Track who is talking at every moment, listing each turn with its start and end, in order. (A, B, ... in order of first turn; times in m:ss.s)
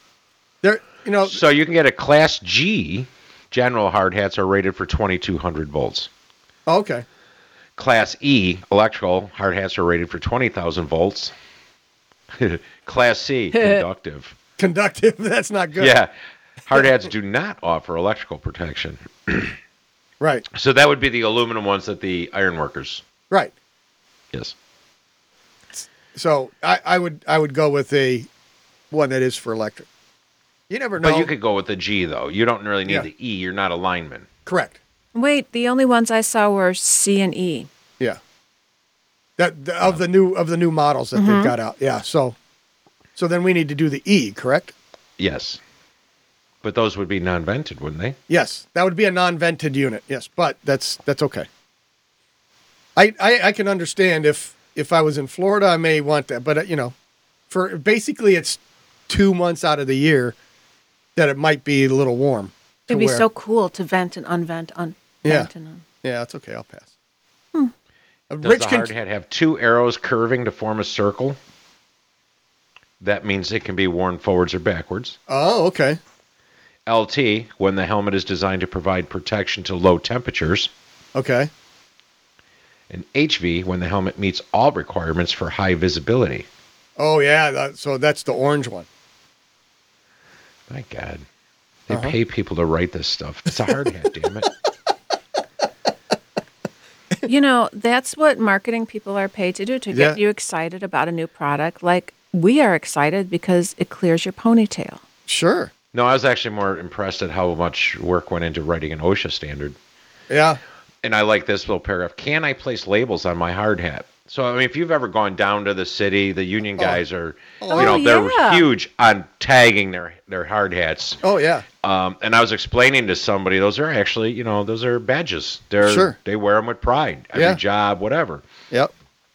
0:00.6-0:01.4 A
0:01.2-0:06.1 B
0:06.7-0:07.0 A
0:07.8-0:11.3 B
0:12.3-0:14.4 B
0:13.5-0:13.8 C
0:14.6-0:15.9 A
0:15.8-0:16.1 B
0:16.6-0:19.5 B
0:20.2-0:20.4 A
0:20.5-0:23.0 B
0:25.7-0:28.3 A
0:28.9-0:29.9 A
0:30.7-0:31.3 A
0:31.0-0:34.3 B
0:34.4-0:34.8 A
0:35.1-0:37.7 C
0:39.4-0:42.4 A
0:41.1-0:41.5 C
0:43.2-0:44.7 A
0:45.2-0:45.6 B
0:46.6-0:48.2 B
0:48.3-0:51.5 A
0:53.0-0:56.9 A
0:57.5-1:00.4 A
1:01.2-1:03.2 A
1:02.9-1:05.8 C
1:05.2-1:05.5 A
1:06.0-1:06.9 A
1:08.3-1:08.9 A
1:08.4-1:11.4 B
1:13.0-1:15.2 B
1:15.3-1:16.0 A
1:16.8-1:20.7 B
1:21.1-1:21.5 A
1:22.9-1:26.5 B
1:27.0-1:28.9 A
1:30.7-1:31.2 B
1:31.9-1:34.5 B
1:37.2-1:45.0 C
1:39.9-1:40.2 A
1:45.3-1:45.7 A
1:45.9-1:49.8 B
1:50.3-1:50.6 A
1:51.0-2:01.2 B
1:57.6-1:58.0 A
1:57.7-1:58.7 C
2:01.2-2:01.6 A
2:01.8-2:08.4 B
2:05.8-2:06.2 A
2:07.3-2:07.6 A